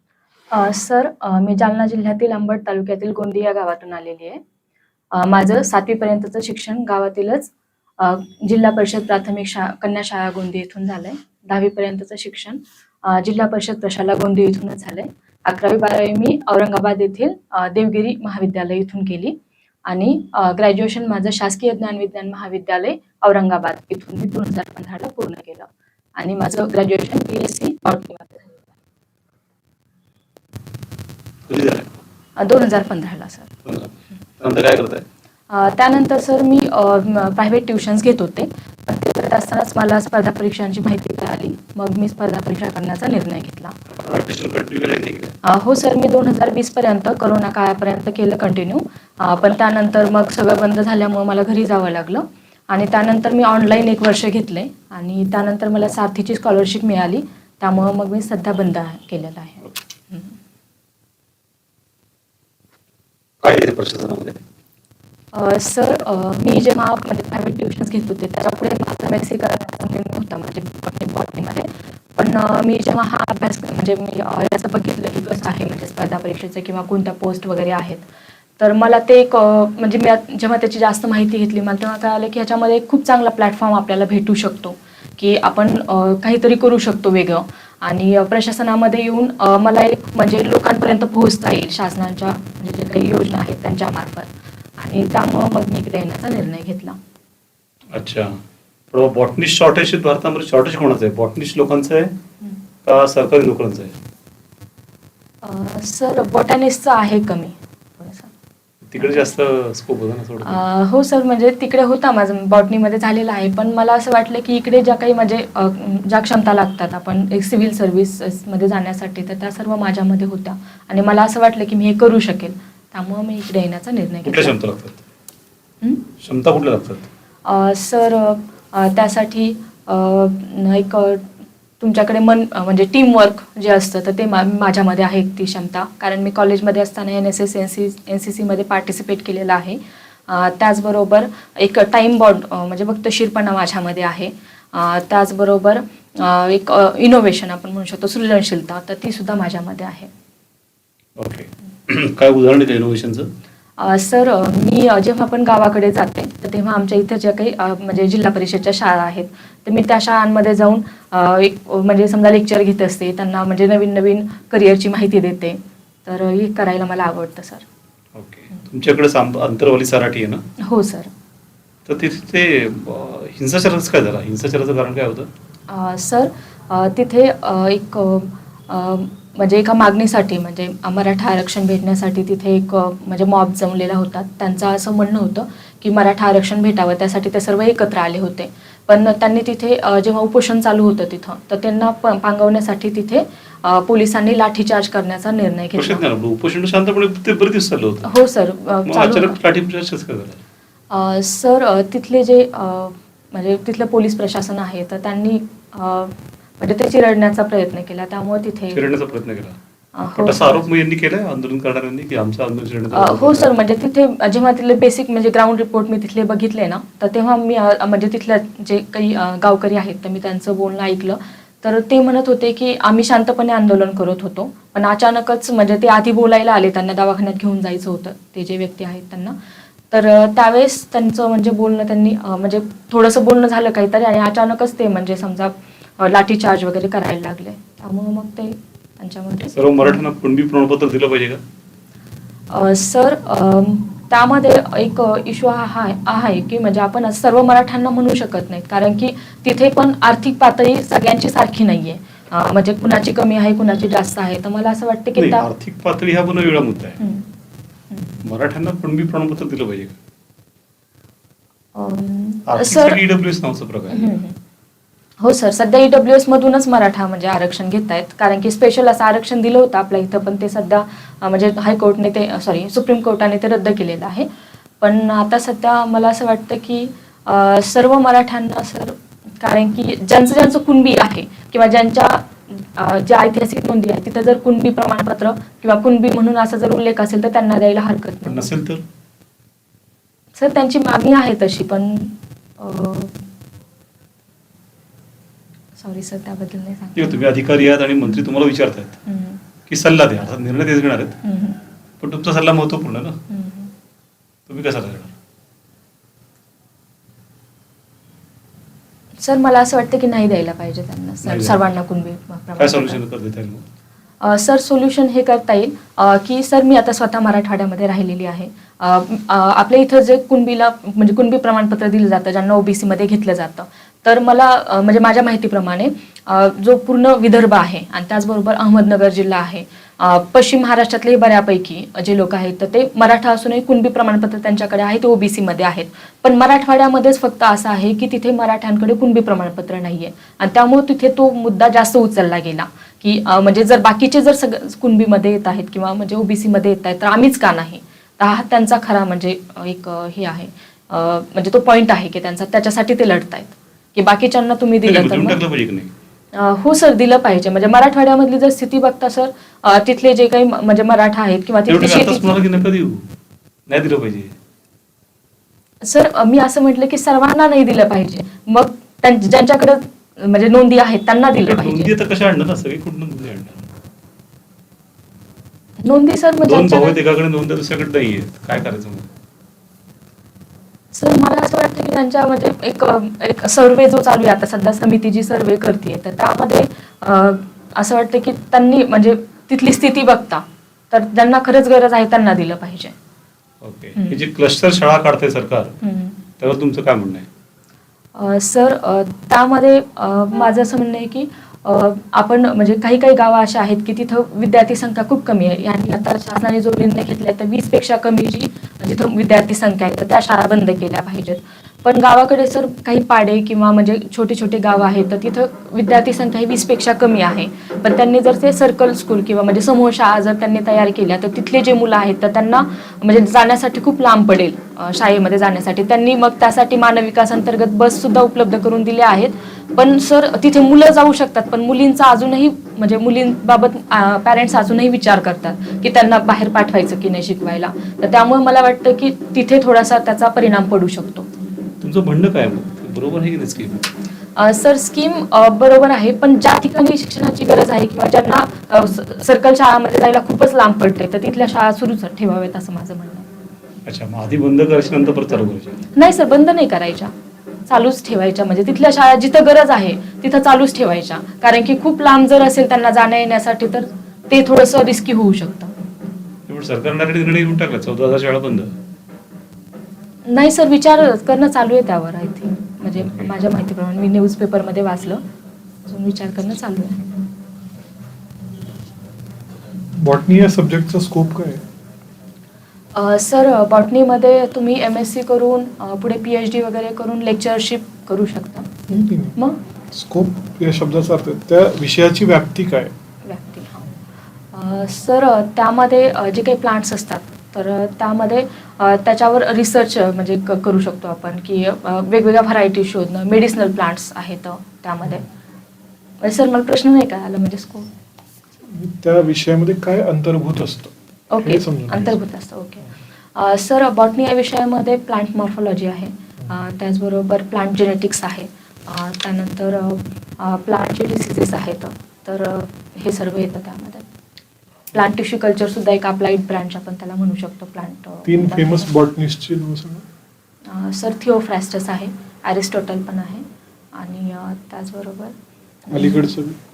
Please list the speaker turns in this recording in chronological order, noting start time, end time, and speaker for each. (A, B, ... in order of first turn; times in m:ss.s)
0:00.5-0:04.4 A
0:05.1-0:19.4 A
0:19.9-0:28.7 A
0:31.5-0:31.9 B
0:32.4-0:33.5 A
0:33.7-0:35.0 B
0:35.5-0:43.8 A
0:43.9-0:45.3 B
0:45.4-1:00.4 A
1:03.4-1:04.4 B
1:05.3-1:18.0 A
1:18.6-1:37.0 A
1:37.9-1:38.4 B
1:38.9-1:42.2 B
1:42.8-1:44.0 B
1:45.4-1:48.3 A
1:48.9-1:50.6 B
1:49.0-1:49.3 A
1:50.4-2:04.6 A
2:04.2-2:05.0 B
2:05.8-2:06.1 A
2:06.2-2:07.1 B
2:07.4-2:11.2 A
2:11.8-2:30.1 A
2:31.2-2:33.3 B
2:33.8-2:47.6 A
2:48.2-2:50.4 B
2:50.6-2:51.1 A
2:51.9-2:55.3 B
2:55.7-3:16.0 A
3:15.8-3:18.1 B
3:18.0-3:19.4 A
3:18.9-3:20.4 B
3:20.9-3:28.8 A
3:28.7-3:29.6 B
3:29.9-3:30.7 A
3:30.2-3:33.6 B
3:32.9-3:49.4 A
3:49.9-4:00.0 A
3:59.5-4:01.4 B
4:02.5-4:15.5 A
4:15.2-4:17.0 B
4:17.0-4:17.3 A
4:17.9-4:18.2 A
4:18.2-4:20.0 B
4:21.8-4:23.0 A
4:22.5-4:24.1 B
4:23.9-4:24.4 A
4:25.2-4:34.3 A
4:34.8-4:48.5 A
4:48.3-4:48.8 B
4:50.4-4:53.2 A
4:55.8-4:57.3 A
4:57.0-4:59.0 B
4:59.1-4:59.4 A
4:59.7-5:01.2 B
5:01.2-5:01.6 A
5:02.0-5:03.2 B
5:03.3-5:03.7 A
5:04.5-5:05.1 B
5:09.2-5:13.0 A
5:11.2-5:11.6 B
5:12.6-5:13.6 B
5:14.2-5:55.4 A
5:54.8-5:55.9 B
5:56.3-6:02.6 A
6:01.7-6:03.0 B
6:03.7-6:04.3 B
6:05.8-6:11.9 A
6:11.5-6:13.7 B
6:15.8-6:17.0 A
6:16.4-6:19.1 B
6:20.9-6:32.9 A
6:33.6-6:35.7 B
6:34.0-6:34.2 A
6:35.8-6:36.2 A
6:36.4-6:37.3 B
6:38.2-7:21.3 A
7:21.8-7:23.8 B
7:24.4-7:33.3 A
7:33.8-7:35.8 B
7:35.9-7:37.1 A
7:37.7-7:45.8 A
7:46.5-7:48.7 B
7:50.3-7:55.2 A
7:55.9-7:57.3 A
7:59.9-8:01.6 C
8:03.0-8:09.6 A
8:08.9-8:09.4 C
8:09.9-8:12.9 C
8:13.2-8:13.9 A
8:14.5-8:25.3 A
8:26.2-8:27.9 A
8:28.7-8:32.2 C
8:31.3-8:44.1 A
8:44.9-8:48.9 A
8:48.2-8:50.0 C
8:50.7-8:55.3 A
8:55.8-8:56.3 A
8:55.9-8:56.6 C